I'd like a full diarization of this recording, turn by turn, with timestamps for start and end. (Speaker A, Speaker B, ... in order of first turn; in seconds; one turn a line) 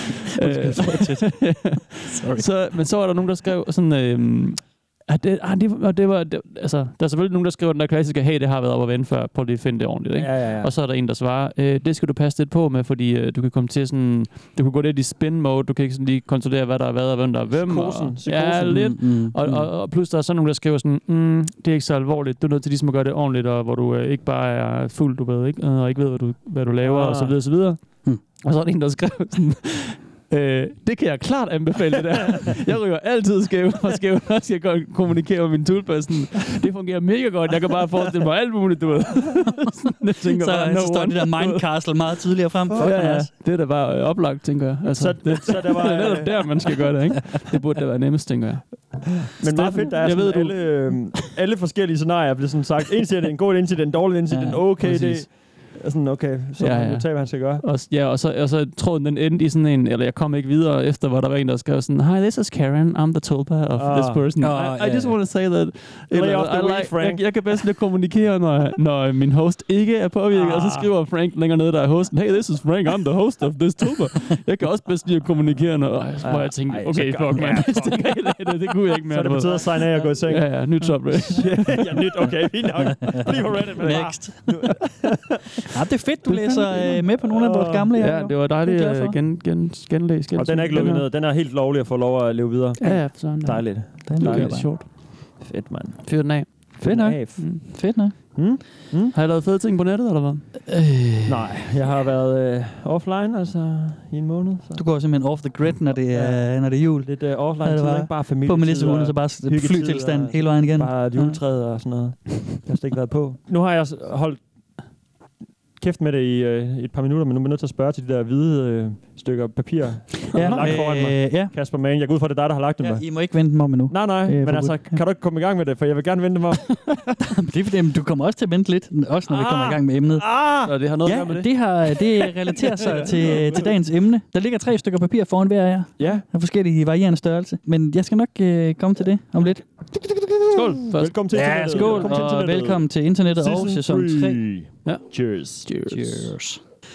Speaker A: 0.3-41.9
Speaker B: 0.4-2.5
Speaker C: 10.2-10.7
Speaker C: 17.5-18.8
Speaker B: 18.6-19.7
Speaker C: 26.8-27.4
Speaker B: 40.2-43.3
Speaker C: 42.7-43.0
Speaker A: 42.7-51.1
Speaker C: 45.0-46.7
Speaker C: 49.2-57.6
Speaker B: 54.3-55.2
Speaker A: 54.8-55.2
Speaker A: 56.6-81.8
Speaker C: 63.8-64.2
Speaker B: 64.4-65.2
Speaker C: 66.1-67.3
Speaker C: 70.3-70.9
Speaker C: 76.2-85.6
Speaker B: 82.9-84.8
Speaker B: 85.7-89.2
Speaker A: 86.3-87.0
Speaker C: 87.3-87.9
Speaker A: 88.0-91.0
Speaker C: 90.3-97.7
Speaker A: 92.8-94.9
Speaker B: 94.0-94.7
Speaker A: 96.0-96.8
Speaker B: 96.8-98.2
Speaker C: 98.3-99.1
Speaker A: 99.1-100.4
Speaker B: 100.7-101.5
Speaker C: 101.2-104.8
Speaker B: 104.7-111.4
Speaker C: 106.1-114.4
Speaker C: 115.8-123.1
Speaker B: 120.3-121.5
Speaker A: 120.3-120.7
Speaker B: 122.8-125.0
Speaker C: 123.9-127.1
Speaker B: 127.3-130.3
Speaker C: 129.3-130.7
Speaker A: 130.6-131.5
Speaker B: 131.0-139.6
Speaker C: 133.0-133.6
Speaker C: 136.0-136.2
Speaker C: 140.1-142.8
Speaker A: 140.5-142.4
Speaker B: 141.3-144.4
Speaker C: 143.3-145.7
Speaker A: 145.6-146.3
Speaker B: 145.9-146.6